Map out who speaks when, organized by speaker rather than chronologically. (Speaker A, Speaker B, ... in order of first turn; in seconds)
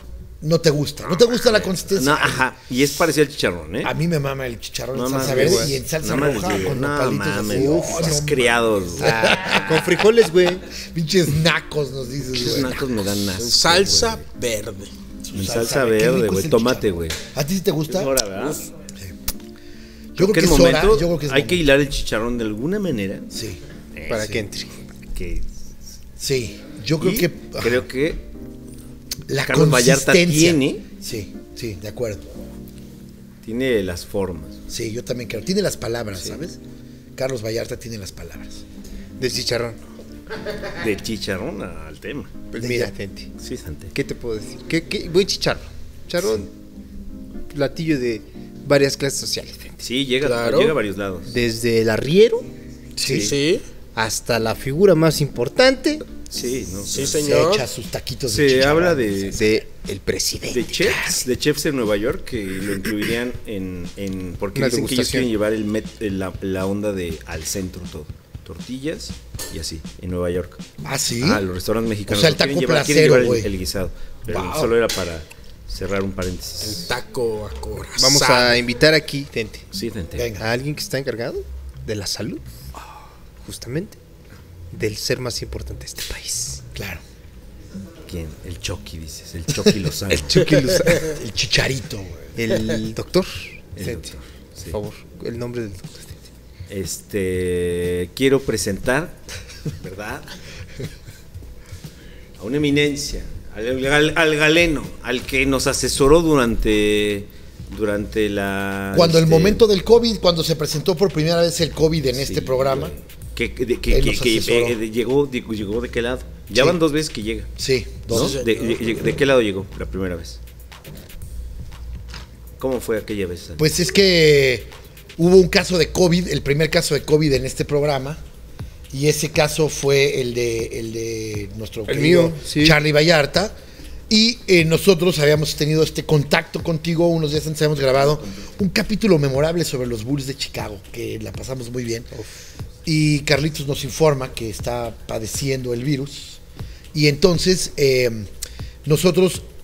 Speaker A: 0.4-2.4, 3.8-10.0, 10.8-12.8, 15.2-18.2, 20.1-21.6, 23.3-23.6, 24.1-24.4, 26.2-27.9, 29.3-32.3, 34.7-36.6, 37.1-38.6, 42.6-42.9, 53.0-53.3, 57.0-59.4, 60.9-61.2, 70.8-71.4, 72.1-73.5, 74.3-74.7, 80.1-80.5, 86.7-87.0, 91.0-92.3, 108.9-112.9, 113.9-114.8, 116.5-116.8, 117.6-118.4, 123.6-128.2, 128.9-133.5, 134.1-142.1, 142.8-146.4, 146.9-148.3, 148.8-149.4
Speaker B: 1.3-3.9, 4.9-9.6, 12.3-14.2, 15.3-17.2, 17.9-18.7, 20.2-23.3, 23.9-24.2, 25.1-25.5, 27.0-28.2, 29.4-30.8, 33.4-34.6, 40.7-42.8, 43.4-43.9, 49.8-51.3, 53.0-53.4, 56.3-57.2, 58.3-59.5, 60.5-70.6, 71.2-76.9, 79.7-80.3, 88.1-90.5, 93.8-94.8, 96.7-99.2, 99.8-100.3, 102.4-109.6, 112.1-117.5, 118.1-120.4, 122.6-123.7
Speaker C: 5.2-5.8, 7.5-8.2, 9.0-10.6, 24.1-24.8, 39.2-39.8, 42.5-43.3, 43.9-46.5, 47.5-49.8, 51.2-52.5, 53.9-56.0, 59.3-61.1, 64.5-65.3, 78.0-79.7, 80.4-82.4, 83.4-84.0, 84.7-86.6, 90.1-91.2, 92.3-94.1, 94.7-96.2, 131.9-132.8
Speaker D: 13.4-14.9, 50.2-50.8, 53.1-53.6, 56.9-57.7, 76.6-78.6, 118.1-118.8